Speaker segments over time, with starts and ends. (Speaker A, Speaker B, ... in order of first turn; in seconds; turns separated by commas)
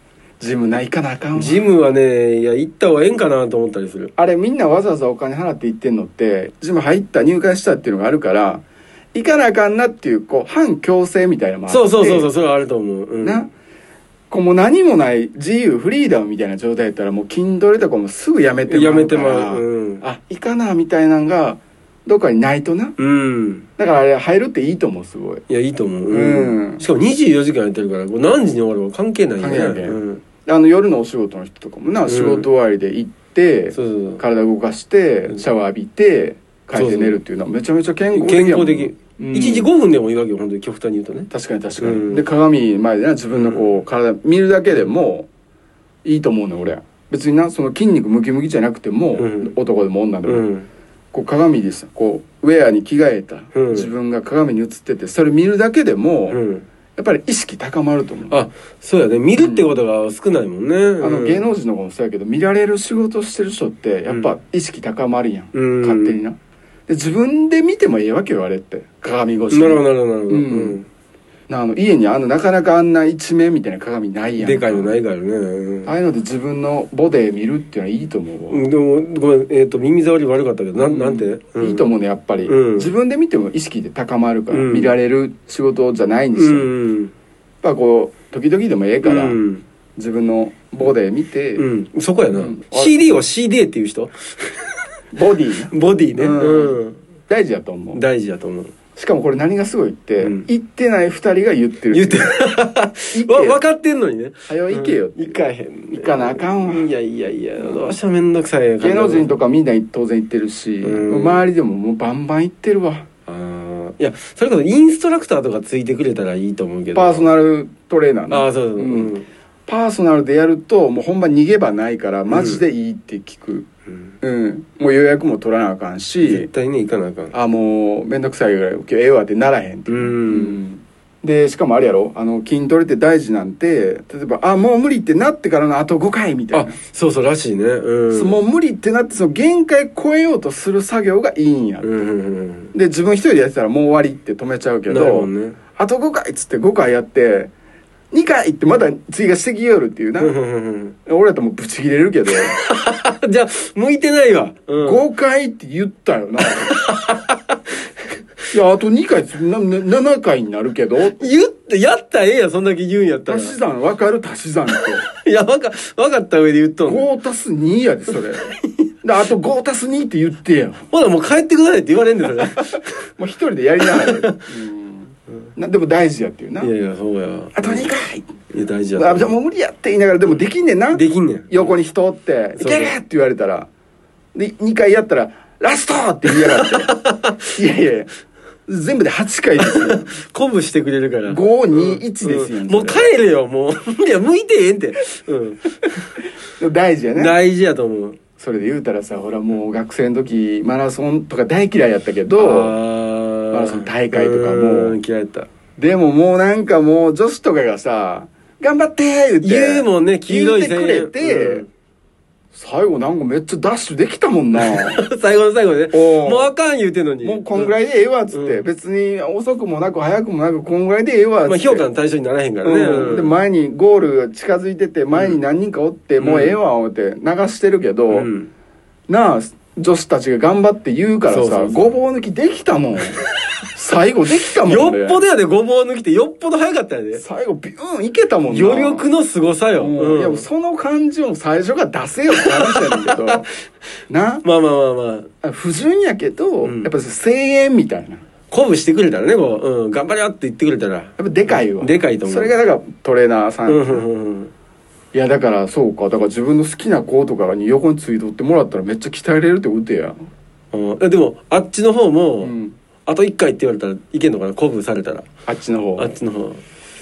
Speaker A: 0.4-1.7, Speaker B: 1.4-4.1, Speaker A: 4.2-12.3, Speaker B: 11.7-13.4, Speaker A: 13.2-13.5, Speaker A: 14.3-22.9, Speaker B: 18.7-20.0, Speaker B: 23.0-23.6, Speaker A: 23.8-25.4, Speaker B: 25.5-30.2, Speaker A: 26.1-26.8, Speaker A: 29.4-39.7, Speaker B: 32.1-32.5, Speaker B: 33.7-34.2, Speaker B: 36.7-37.2, Speaker B: 38.1-41.3, Speaker A: 41.3-45.3, Speaker B: 41.8-42.2, Speaker B: 43.4-43.8, Speaker A: 46.0-50.5, Speaker B: 49.2-49.5, Speaker B: 50.3-50.7, Speaker A: 51.1-56.4, Speaker B: 53.5-53.9, Speaker B: 56.3-56.6, Speaker A: 57.0-58.4, Speaker B: 58.3-61.5, Speaker A: 59.4-59.7, Speaker A: 61.0-70.8, Speaker B: 65.5-66.2, Speaker B: 69.5-70.9, Speaker A: 71.5-75.0, Speaker B: 74.4-75.9, Speaker A: 75.8-78.6, Speaker B: 78.5-81.8, Speaker A: 80.8-86.7, Speaker B: 82.5-82.9, Speaker B: 84.5-84.9, Speaker B: 86.3-87.1, Speaker A: 87.6-89.4, Speaker B: 89.0-89.6, Speaker A: 90.0-91.7, Speaker B: 91.6-94.5, Speaker A: 92.3-93.0, Speaker A: 95.1-98.0, Speaker B: 95.7-97.0, Speaker B: 97.9-98.7, Speaker A: 98.9-102.3, Speaker B: 100.2-100.5, Speaker B: 101.9-109.4, Speaker A: 103.1-103.6, Speaker A: 104.5-106.9, Speaker A: 107.6-108.0, Speaker A: 108.8-113.0, Speaker B: 110.8-111.4, Speaker B: 113.3-117.3, Speaker A: 116.9-119.1, Speaker B: 118.3-119.3, Speaker A: 119.7-123.7, Speaker B: 122.3-122.6, Speaker B: 123.9-124.1, Speaker A: 124.2-126.5, Speaker B: 126.2-127.3, Speaker A: 127.3-136.8, Speaker B: 129.9-130.6, Speaker B: 136.5-138.4, Speaker A: 138.1-141.9, Speaker B: 141.8-142.7, Speaker A: 142.7-147.5, Speaker B: 144.9-145.6, Speaker A: 148.1-150.3, Speaker B: 150.2-150.9, Speaker A: 151.1-152.6, Speaker B: 152.5-155.0, Speaker A: 154.8-156.7, Speaker B: 156.4-157.6, Speaker A: 158.5-161.3, Speaker B: 161.2-163.6, Speaker A: 163.2-165.1, Speaker B: 165.1-167.1, Speaker A: 166.8-168.4, Speaker A: 169.0-170.9, Speaker B: 170.9-172.9, Speaker A: 173.2-176.7, Speaker B: 173.8-174.4, Speaker B: 176.6-177.9, Speaker A: 177.5-178.3, Speaker B: 178.5-179.3, Speaker A: 178.9-183.7, Speaker B: 180.9-181.7, Speaker B: 182.6-182.9, Speaker A: 184.3-186.9, Speaker B: 186.3-187.3, Speaker A: 187.5-188.1, Speaker A: 188.7-190.1, Speaker B: 189.6-196.0, Speaker A: 191.2-193.1, Speaker A: 196.6-197.3, Speaker B: 197.1-198.2, Speaker A: 198.4-202.7, Speaker B: 202.4-205.5, Speaker A: 203.5-205.0, Speaker A: 205.8-211.6, Speaker B: 209.4-211.7, Speaker A: 212.5-215.0, Speaker B: 214.6-217.7, Speaker A: 215.9-216.5, Speaker A: 217.2-221.8, Speaker B: 218.3-218.6, Speaker B: 221.4-223.3, Speaker A: 222.6-228.3, Speaker B: 225.1-225.4, Speaker B: 226.2-226.6, Speaker B: 228.1-228.5, Speaker A: 229.1-233.2, Speaker B: 231.3-231.9, Speaker A: 233.7-235.2, Speaker B: 234.6-237.2, Speaker A: 237.2-239.1, Speaker B: 238.5-240.4, Speaker A: 239.8-243.4, Speaker B: 242.4-243.4, Speaker A: 244.1-244.4, Speaker B: 244.4-245.3, Speaker A: 245.4-248.2, Speaker B: 246.6-246.9, Speaker B: 248.5-252.5, Speaker A: 251.2-254.1, Speaker B: 253.7-254.5, Speaker A: 255.1-260.2, Speaker B: 260.7-262.5, Speaker A: 262.4-262.8, Speaker B: 263.1-265.3, Speaker A: 265.5-266.1, Speaker B: 266.0-266.6